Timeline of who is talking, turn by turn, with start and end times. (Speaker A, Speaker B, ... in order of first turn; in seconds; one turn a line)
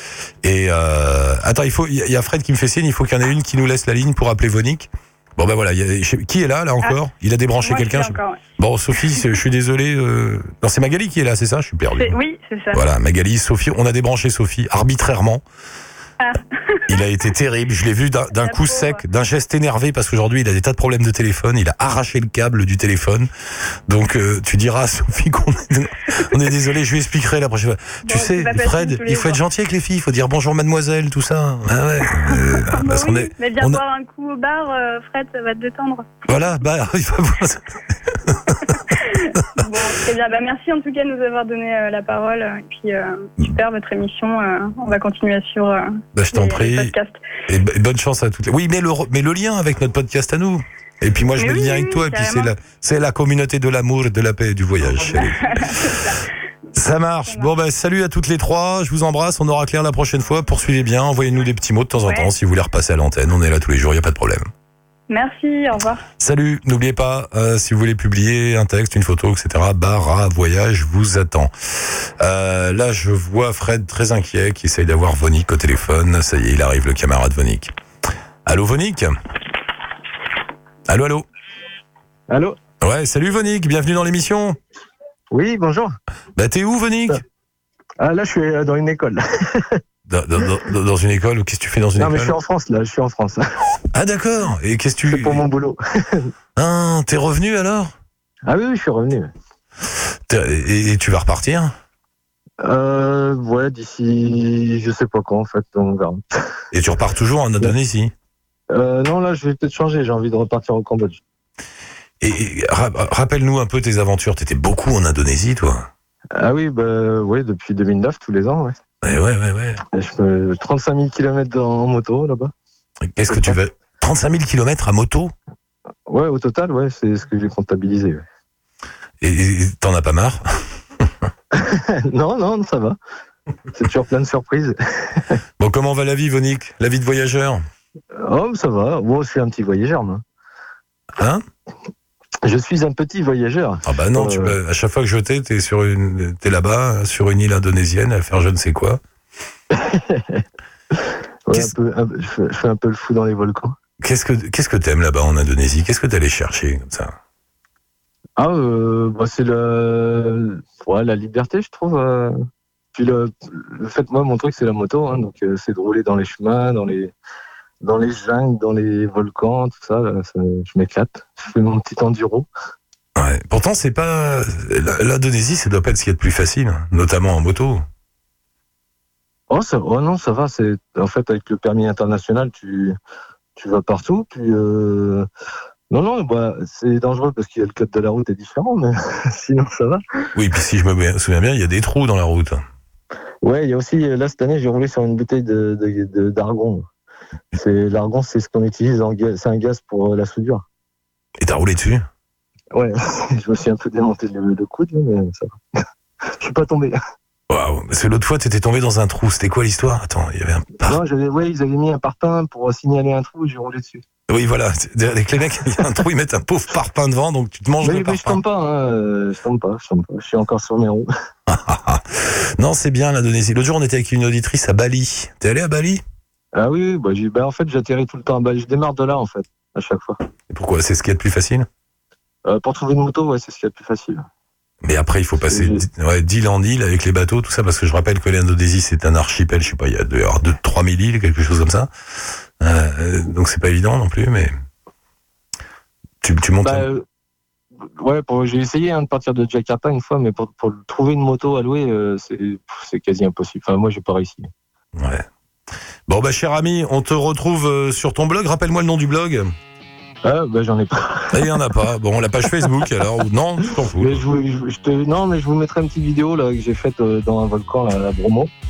Speaker A: 0.4-12.2
Speaker B: 7.6-8.4
Speaker B: 8.9-9.3
Speaker B: 11.9-12.8
Speaker A: 12.7-15.4
Speaker B: 16.2-17.0
Speaker A: 16.9-23.3
Speaker B: 18.4-19.0
Speaker A: 23.9-33.8
Speaker B: 28.0-29.4
Speaker B: 32.2-36.1
Speaker A: 36.3-38.8
Speaker B: 38.9-47.2
Speaker A: 46.1-46.9
Speaker A: 47.5-56.1
Speaker B: 51.4-52.5
Speaker B: 55.2-56.2
Speaker A: 56.7-64.5
Speaker B: 62.0-62.3
Speaker B: 65.1-66.0
Speaker A: 66.2-77.7
Speaker A: 78.5-79.2
Speaker A: 80.9-81.3
Speaker C: 82.3-82.6
Speaker A: 82.8-84.6
Speaker C: 85.3-86.0
Speaker A: 86.4-87.2
Speaker C: 88.0-89.8
Speaker A: 90.1-92.4
Speaker C: 92.0-93.8
Speaker A: 93.9-95.5
Speaker C: 95.1-96.3
Speaker A: 96.6-97.9
Speaker C: 98.5-99.3
Speaker A: 100.3-101.7
Speaker C: 102.6-106.2
Speaker A: 106.7-108.1
Speaker C: 108.7-111.2
Speaker A: 112.2-115.9
Speaker C: 116.3-118.8
Speaker A: 119.0-119.8
Speaker C: 119.9-122.5
Speaker A: 123.0-125.3
Speaker C: 123.3-123.6
Speaker C: 126.1-128.2
Speaker A: 129.2-131.1
Speaker C: 131.5-133.0
Speaker C: 133.7-135.4
Speaker A: 135.6-137.7
Speaker C: 138.2-140.2
Speaker A: 141.2-141.4
Speaker C: 142.4-144.6
Speaker A: 143.8-149.0
Speaker C: 149.7-153.8
Speaker A: 154.0-157.2
Speaker C: 158.4-162.3
Speaker C: 162.9-167.1
Speaker C: 167.8-172.5
Speaker A: 173.2-177.8
Speaker C: 179.5-183.0
Speaker C: 183.6-185.3
Speaker C: 185.9-190.0
Speaker A: 190.3-192.6
Speaker C: 193.4-196.9
Speaker C: 197.5-200.6
Speaker A: 201.4-202.1
Speaker C: 202.7-205.5
Speaker C: 206.4-207.0
Speaker A: 207.5-211.0
Speaker C: 210.8-214.0
Speaker A: 214.3-218.4
Speaker C: 217.8-221.1
Speaker A: 221.5-226.0
Speaker C: 226.6-230.2
Speaker A: 230.5-231.7
Speaker C: 232.5-234.2
Speaker A: 234.8-241.9
Speaker C: 235.5-235.8
Speaker A: 242.6-244.5
Speaker A: 246.2-246.9
Speaker C: 246.6-247.1
Speaker C: 247.8-254.5
Speaker A: 254.9-255.3
Speaker A: 256.1-259.5
Speaker C: 260.2-261.6
Speaker A: 261.3-264.2
Speaker C: 263.9-268.5